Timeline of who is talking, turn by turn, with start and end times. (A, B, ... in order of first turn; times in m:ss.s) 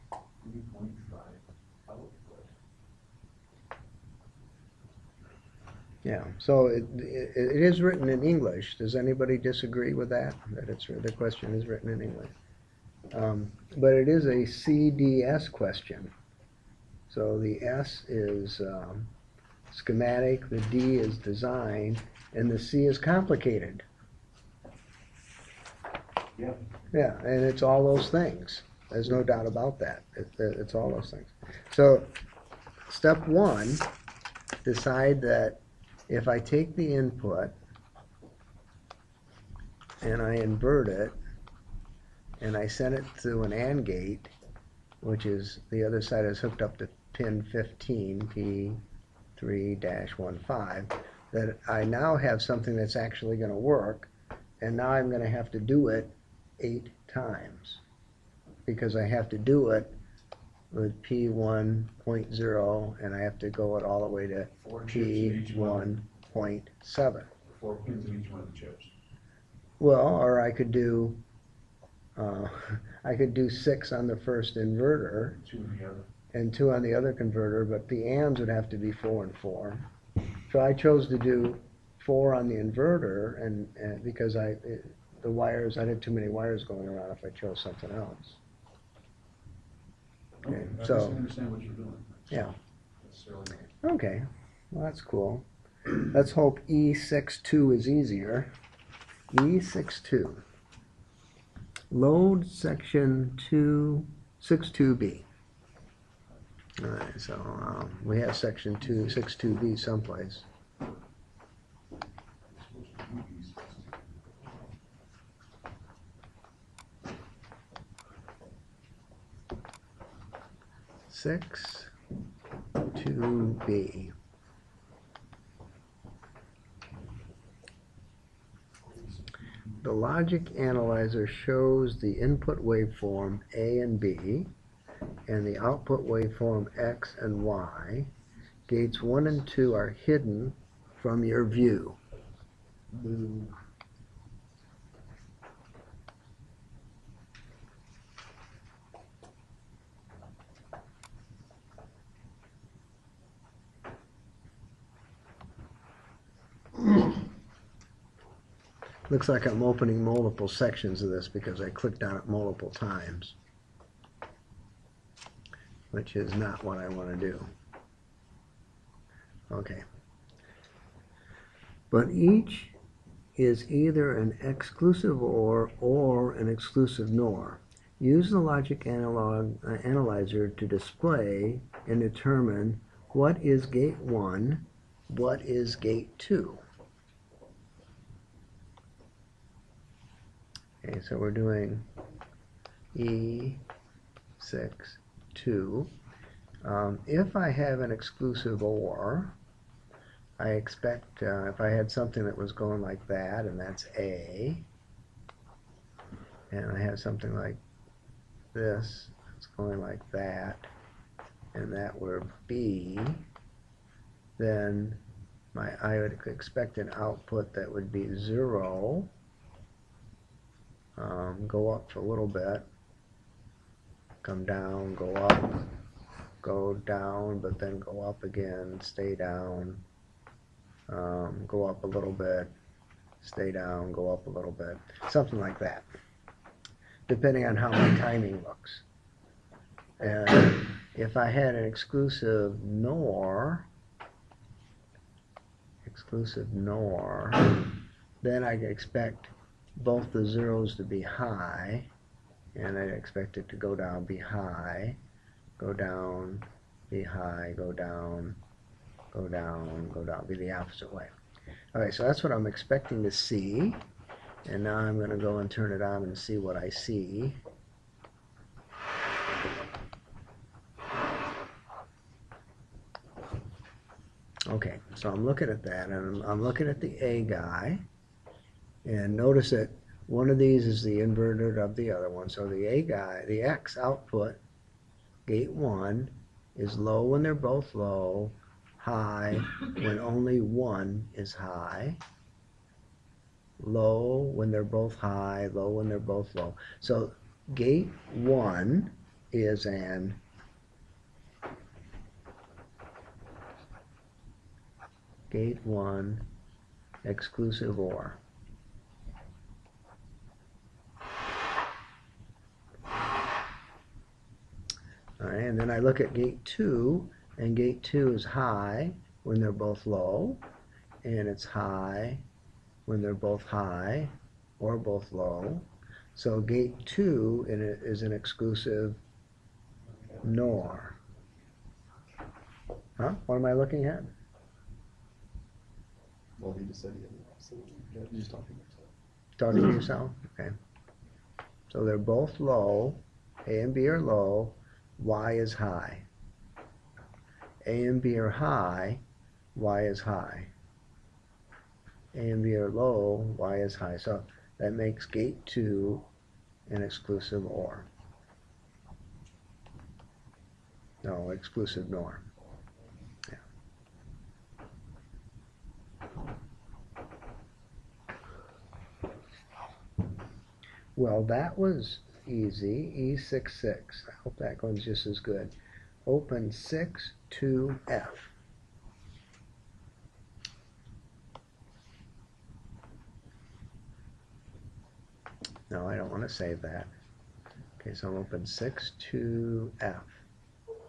0:00.4-0:02.5 A
0:06.0-0:12.3 B
0:13.1-0:16.1 B
0:17.1-0:19.1 B
0:19.7-0:23.8 B
0:26.9-0:32.1 B
0:32.9-0:33.8 B
0:34.6-0:37.5 B
0:40.0-0:41.1 B
0:42.4-0:44.3 B
0:45.0-0:48.8 B
0:49.4-0:54.1 B
0:54.6-0:57.8 B
0:58.7-0:59.9 B
1:00.7-1:07.3 B
1:04.6-1:06.0 A
1:07.5-1:08.9 A
1:09.8-1:11.2 B
1:12.2-1:15.4 B
1:15.4-1:16.0 A
1:16.3-1:19.9 B
1:20.5-1:28.4 B
1:30.4-1:32.5 A
1:30.5-1:31.2 B
1:33.0-1:33.7 A
1:33.8-1:35.4 B
1:36.0-1:38.5 B
1:39.3-1:40.4 B
1:41.9-1:45.3 B
1:46.8-1:50.4 B
1:52.5-1:54.0 A
2:01.1-2:01.9 B
2:02.9-2:04.1 B
2:09.8-2:14.5 B
2:15.3-2:18.1 B
2:18.7-2:22.0 B
2:23.0-2:23.5 C
2:39.1-2:43.3 B
2:45.9-2:47.5 B
2:49.5-2:49.8 B
2:51.9-2:52.7 B
2:53.4-3:06.6 B
3:10.8-3:11.8 B
3:12.9-3:13.6 B
3:14.4-3:15.9 B
3:16.6-3:19.3 B
3:20.4-3:24.6 B
3:26.5-3:27.6 B
3:28.5-3:30.7 B
3:31.5-3:33.2 B
3:34.4-3:35.0 B
3:35.5-3:39.1 B
3:41.0-3:42.6 B
3:44.2-3:45.6 B
3:46.4-3:49.8 B
3:50.9-3:52.5 B
3:53.2-3:55.8 B
3:57.1-3:58.8 B
4:00.0-4:03.6 B
4:05.8-4:07.7 B
4:08.2-4:11.9 B
4:12.5-4:15.0 B
4:15.6-4:18.4 B
4:19.1-4:21.1 B
4:21.7-4:23.8 B
4:24.4-4:27.4 B
4:34.5-4:37.8 B
4:38.8-4:44.4 B
4:45.2-4:52.0 B
4:53.6-5:00.2 B
5:05.3-5:06.2 B
5:07.0-5:08.2 B
5:15.2-5:20.4 B
5:21.0-5:22.2 B
5:22.8-5:29.0 B
5:30.2-5:31.0 B
5:33.0-5:34.1 B
5:36.4-5:38.9 C
5:39.4-5:40.5 B
5:41.7-5:46.0 B
5:47.6-5:49.0 B
5:49.5-5:50.5 B
5:52.1-5:56.0 B
5:56.7-5:57.9 B
6:01.0-6:02.3 B
6:11.0-6:15.5 B
6:16.0-6:18.3 B
6:25.7-6:26.9 B
6:27.8-6:30.2 B